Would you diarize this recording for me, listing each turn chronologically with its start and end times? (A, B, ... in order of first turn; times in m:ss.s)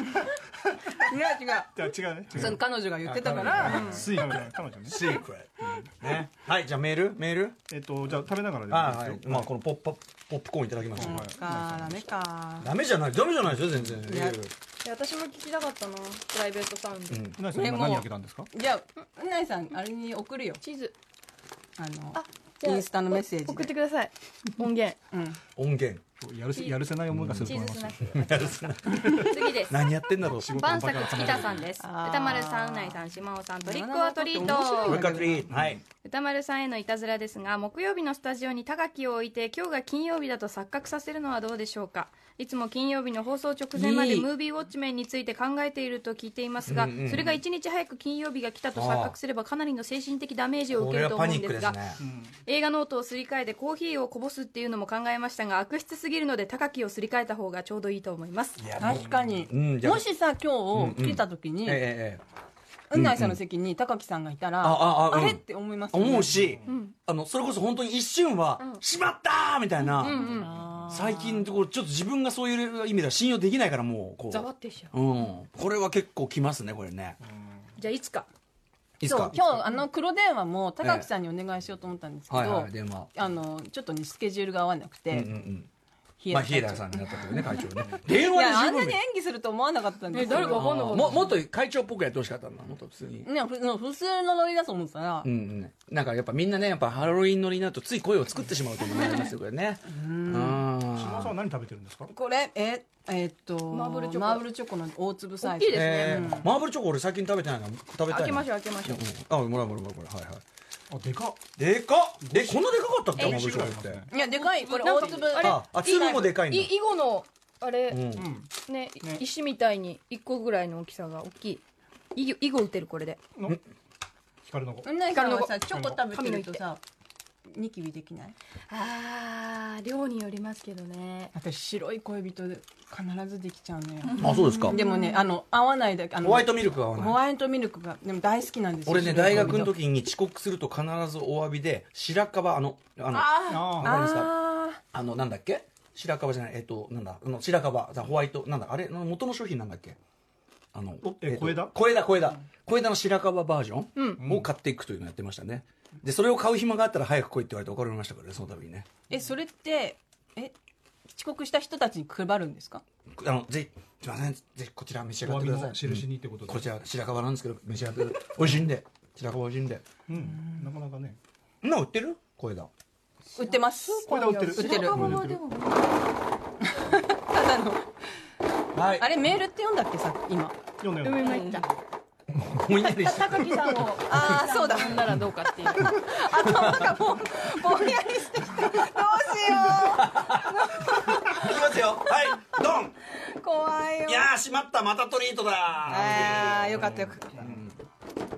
0:01.0-0:04.3 A
0:01.7-0:05.1 B
0:03.0-0:07.6 C
0:07.7-0:09.5 B
0:08.7-0:11.2 C
0:11.0-0:12.7 A
0:11.0-0:12.0 B
0:12.6-0:14.5 C
0:14.1-0:14.4 A
0:14.8-0:17.2 D
0:17.1-0:17.4 C
0:17.4-0:18.5 B
0:17.5-0:20.6 A
0:20.6-0:20.9 D
0:21.8-0:23.7 A
0:22.1-0:25.0 D
0:25.1-0:25.4 A
0:25.6-0:26.0 C
0:26.2-0:28.2 B
0:26.5-0:26.8 D
0:27.1-0:31.5 C
0:27.4-0:28.4 D
0:29.1-0:29.8 D
0:30.3-0:31.7 B
0:30.5-0:35.3 D
0:31.8-0:33.0 A
0:33.6-0:35.4 A
0:34.4-0:35.8 C
0:36.0-0:51.8 D
0:43.8-0:44.3 A
0:46.6-0:47.4 C
0:48.7-0:49.1 C
0:50.7-0:52.0 C
0:52.0-0:52.3 B
0:52.4-0:58.6 D
0:58.6-1:00.1 C
0:58.8-1:01.8 A
1:00.7-1:02.2 C
1:02.9-1:06.4 A
1:02.9-1:03.4 C
1:04.6-1:17.2 C
1:06.6-1:06.9 D
1:09.9-1:10.6 D
1:10.2-1:11.0 A
1:14.3-1:14.9 D
1:17.8-1:18.3 D
1:19.0-1:19.6 C
1:19.0-1:25.3 A
1:20.8-1:21.1 C
1:22.3-1:23.1 C
1:25.1-1:25.7 C
1:26.2-1:31.0 A
1:26.3-1:29.0 C
1:30.1-1:31.3 D
1:30.2-1:33.3 C
1:33.2-1:35.3 A
1:35.2-1:41.4 C
1:39.9-1:40.6 A
1:40.9-1:42.1 B
1:42.1-1:46.5 A
1:43.7-1:44.4 D
1:45.4-1:46.2 D
1:45.7-1:50.4 C
1:48.1-1:49.0 D
1:50.9-1:51.5 B
1:51.6-1:54.0 C
1:53.1-1:54.1 B
1:53.2-1:53.6 D
1:54.1-1:55.6 A
1:54.3-1:58.2 D
1:55.4-1:56.7 C
1:57.9-1:58.3 C
1:58.2-1:58.5 B
1:58.7-2:01.6 D
2:02.1-2:03.2 D
2:04.4-2:04.9 B
2:04.8-2:06.8 A
2:05.1-2:06.6 D
2:07.5-2:08.3 A
2:08.7-2:11.3 D
2:11.3-2:19.7 A
2:14.1-2:15.3 D
2:14.2-2:14.8 C
2:16.2-2:17.2 C
2:18.8-2:24.3 C
2:23.5-2:23.9 B
2:23.7-2:24.8 A
2:24.9-2:30.0 C
2:30.7-2:38.9 C
2:31.0-2:31.7 B
2:34.0-2:34.2 D
2:34.2-2:34.5 B
2:39.1-2:40.5 A
2:41.1-2:42.8 A
2:43.1-2:49.8 C
2:45.2-2:46.7 B
2:50.1-2:51.2 B
2:50.2-2:50.6 A
2:51.6-2:52.7 C
2:53.4-2:55.1 A
2:53.4-2:56.0 D
2:54.0-2:55.4 B
2:56.6-2:57.9 A
2:58.7-2:59.1 C
2:59.0-3:00.6 A
3:00.8-3:01.3 B
3:01.0-3:01.6 D
3:01.2-3:01.6 A
3:02.3-3:03.6 C
3:02.9-3:06.0 D
3:04.0-3:05.0 A
3:05.8-3:11.8 A
3:06.5-3:06.8 C
3:09.8-3:12.9 C
3:13.2-3:14.3 A
3:14.0-3:17.7 C
3:15.9-3:17.3 A